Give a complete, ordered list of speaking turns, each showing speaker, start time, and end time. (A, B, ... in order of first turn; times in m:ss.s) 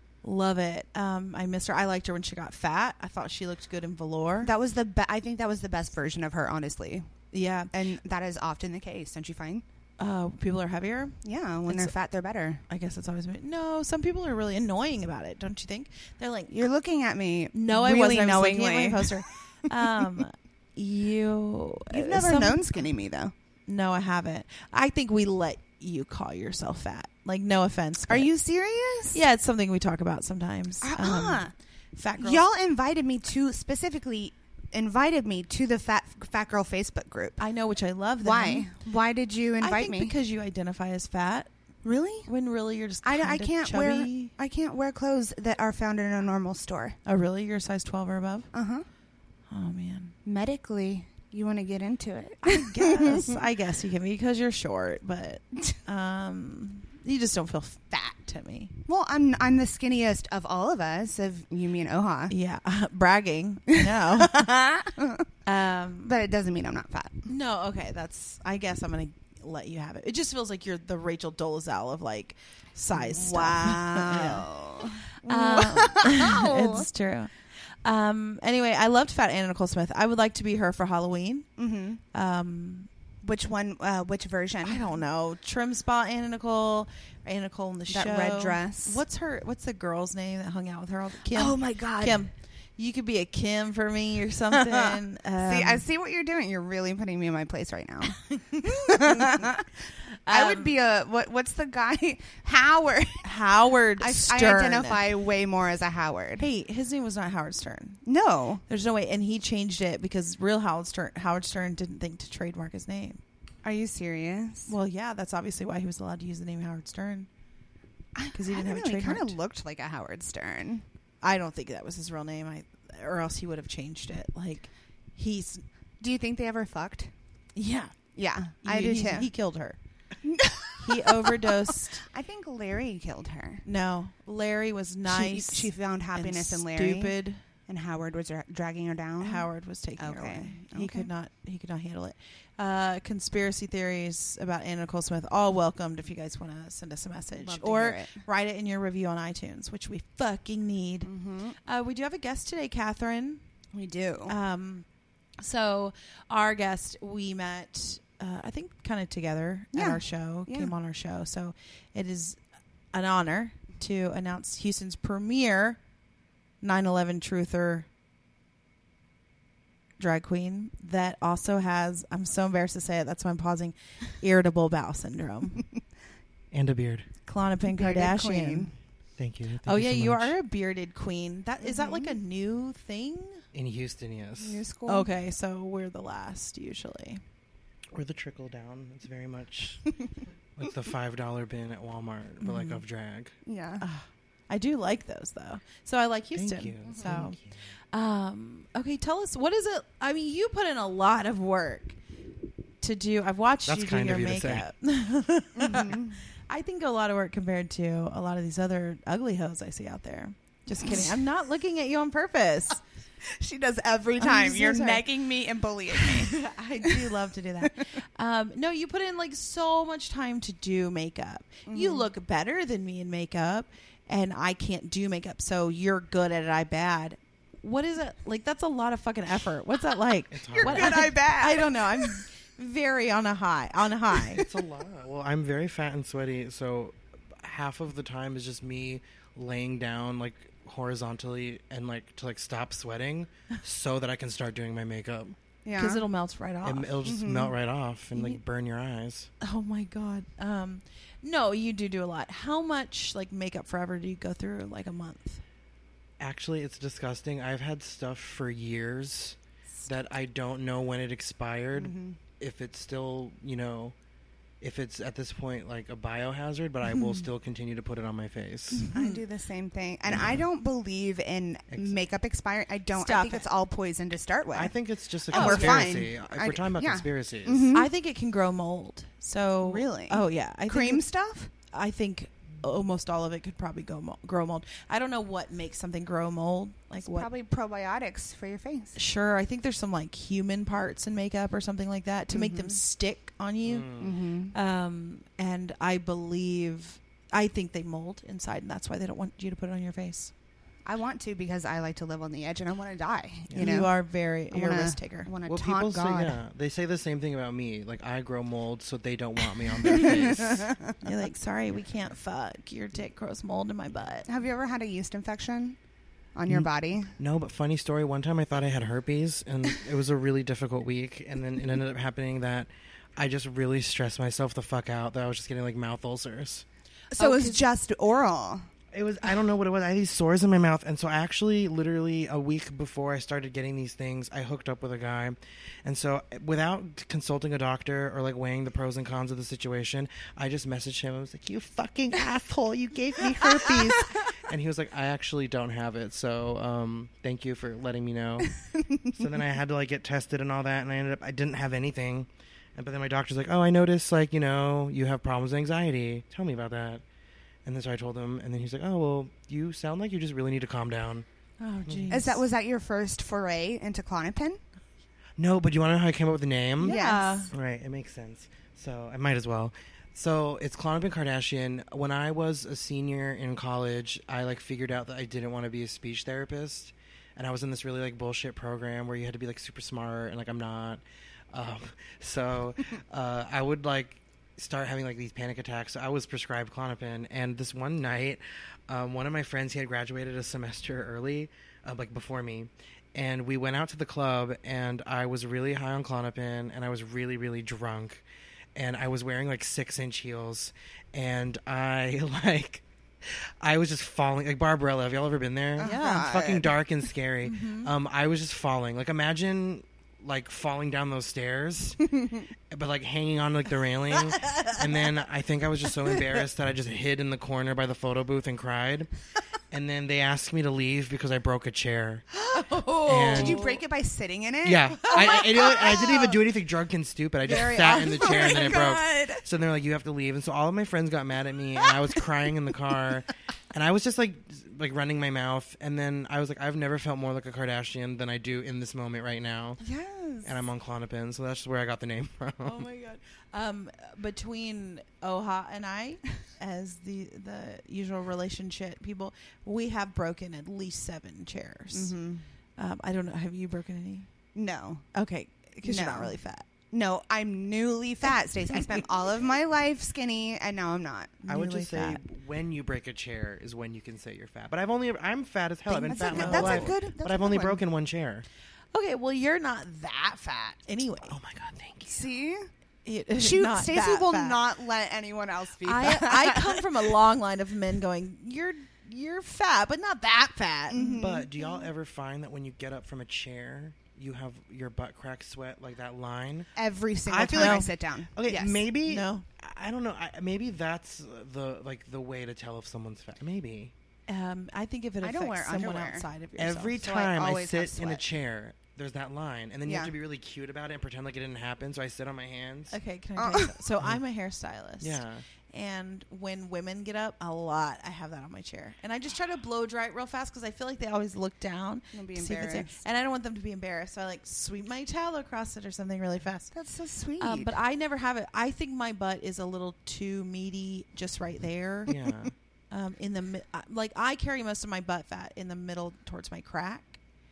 0:00.2-0:04.5 A
0:04.4-0:07.1 B
0:07.3-0:07.7 A
0:07.7-0:09.6 B
0:10.0-0:11.9 A
0:11.2-0:12.6 B
0:12.7-0:16.5 A
0:16.5-0:19.2 B
0:17.5-0:22.9 A
0:21.9-0:23.3 B
0:23.7-0:28.3 A
0:28.1-0:29.2 B
0:29.1-0:32.4 A
0:30.8-0:31.5 B
0:32.2-0:37.4 B
0:37.4-0:38.7 A
0:38.2-0:40.1 B
0:39.6-0:41.5 A
0:41.8-0:42.3 B
0:42.3-0:44.3 A
0:43.0-0:47.0 B
0:47.1-0:48.5 A
0:48.5-0:48.9 B
0:49.5-0:50.1 A
0:50.3-0:53.4 B
0:52.4-0:58.8 A
0:58.9-1:02.3 B
1:02.3-1:04.7 A
1:03.7-1:05.3 B
1:05.5-1:06.2 A
1:06.0-1:07.3 B
1:07.3-1:14.5 A
1:12.9-1:16.9 B
1:15.2-1:17.3 A
1:17.8-1:21.5 A
1:21.6-1:22.0 B
1:22.1-1:22.9 A
1:23.2-1:24.9 B
1:24.6-1:35.8 A
1:27.9-1:29.0 B
1:31.3-1:32.2 B
1:34.5-1:43.2 B
1:38.5-1:39.5 A
1:40.3-1:40.8 A
1:43.2-1:45.0 A
1:44.0-1:46.5 B
1:46.4-1:48.0 A
1:48.0-1:48.6 B
1:48.7-1:53.2 A
1:53.6-1:54.7 B
1:54.7-1:57.3 A
1:58.2-2:00.8 B
1:58.3-1:59.4 A
2:01.2-2:05.6 A
2:06.0-2:07.1 B
2:07.6-2:08.0 A
2:08.2-2:09.3 B
2:08.6-2:09.8 A
2:10.2-2:13.6 B
2:10.8-2:12.0 A
2:13.6-2:17.4 A
2:15.1-2:17.2 B
2:17.7-2:21.1 B
2:19.2-2:31.1 A
2:27.4-2:28.2 B
2:31.0-2:31.6 B
2:31.6-2:33.4 A
2:33.7-2:34.4 B
2:34.3-2:34.8 A
2:35.4-2:42.4 A
2:39.7-2:40.7 B
2:42.9-2:45.8 A
2:46.6-2:47.9 A
2:50.0-2:55.6 A
2:56.5-2:57.1 C
2:57.3-2:58.7 A
2:57.7-2:58.7 B
2:59.2-3:00.3 C
2:59.7-3:03.4 A
3:01.6-3:02.2 B
3:03.5-3:04.6 C
3:04.4-3:05.1 B
3:04.9-3:07.2 A
3:07.9-3:09.9 C
3:10.6-3:13.4 C
3:12.4-3:12.8 A
3:13.4-3:13.8 B
3:13.8-3:17.4 A
3:16.4-3:17.5 C
3:16.9-3:17.2 B
3:17.9-3:22.0 A
3:22.8-3:32.8 A
3:23.7-3:24.7 C
3:25.6-3:26.2 B
3:30.8-3:31.1 B
3:33.2-3:37.1 B
3:34.2-3:35.0 A
3:35.9-3:54.4 A
3:41.7-3:42.1 B
3:50.3-3:51.0 C
3:50.6-3:52.2 B
3:54.4-4:05.4 C
4:05.6-4:06.0 B
4:05.8-4:07.0 A
4:06.6-4:09.3 C
4:07.0-4:07.5 B
4:08.1-4:08.4 A
4:09.4-4:15.4 A
4:16.2-4:24.0 C
4:21.8-4:22.2 B
4:24.6-4:28.9 C
4:28.8-4:34.8 B
4:28.9-4:29.2 A
4:30.1-4:30.4 C
4:31.7-4:32.0 C
4:32.9-4:33.5 A
4:34.5-4:37.7 C
4:35.3-4:37.9 B
4:35.3-4:36.1 A
4:37.7-4:41.0 A
4:39.6-4:41.5 B
4:41.7-4:47.3 A
4:47.0-4:49.0 B
4:49.0-4:54.0 A
4:52.3-4:52.8 B
4:53.6-4:54.1 C
4:54.0-4:54.5 B
4:54.5-5:00.3 A
5:00.8-5:03.9 B
5:03.5-5:03.8 C
5:03.6-5:05.3 A
5:04.5-5:06.4 B
5:05.5-5:10.7 C
5:09.9-5:11.0 B
5:11.0-5:14.3 A
5:14.3-5:15.8 B
5:16.4-5:17.1 B
5:16.5-5:26.6 C
5:27.1-5:27.6 A
5:27.1-5:28.7 B
5:28.9-5:48.5 C
5:48.7-5:49.1 B
5:49.1-5:57.0 C
5:57.6-6:01.2 C
6:01.6-6:02.4 A
6:01.9-6:02.1 C
6:02.1-6:04.6 B
6:05.4-6:07.0 C
6:06.8-6:07.5 A
6:06.8-6:07.5 B
6:07.5-6:38.2 C
6:38.8-6:52.1 C
6:45.8-6:46.7 B
6:45.8-6:46.4 A
6:47.4-6:47.9 A
6:52.7-6:59.1 C
6:54.3-6:54.8 A
6:59.7-7:02.2 C
7:02.3-7:03.8 A
7:03.0-7:03.6 C
7:03.3-7:06.3 B
7:04.6-7:19.8 C
7:05.1-7:06.1 A
7:07.4-7:08.8 A
7:07.5-7:09.4 B
7:19.8-7:20.5 B
7:20.4-7:22.9 C
7:22.6-7:32.2 A
7:31.9-7:32.5 B
7:32.8-7:34.3 A
7:34.6-7:35.0 B
7:35.1-7:36.6 A
7:35.8-7:36.4 B
7:36.9-7:41.4 B
7:38.7-7:39.0 A
7:41.4-7:42.2 A
7:41.5-7:48.5 C
7:45.9-7:47.8 B
7:46.1-7:47.0 A
7:48.9-7:51.3 A
7:51.3-7:52.3 C
7:52.1-7:52.7 B
7:53.0-7:54.6 A
7:53.4-7:56.9 B
7:55.8-8:01.2 A
8:00.9-8:01.5 B
8:01.0-8:06.7 C
8:06.8-8:08.8 B
8:07.3-8:13.9 C
8:07.5-8:07.9 A
8:09.0-8:09.4 A
8:14.3-8:17.0 A
8:15.2-8:16.3 B
8:16.6-8:23.0 C
8:17.0-8:18.2 B
8:19.8-8:20.1 B
8:22.9-8:36.7 A
8:23.4-8:23.7 B
8:25.0-8:25.4 C
8:32.1-8:33.0 B
8:36.7-8:37.7 B
8:37.4-8:42.1 A
8:42.1-8:42.5 C
8:42.9-8:47.2 A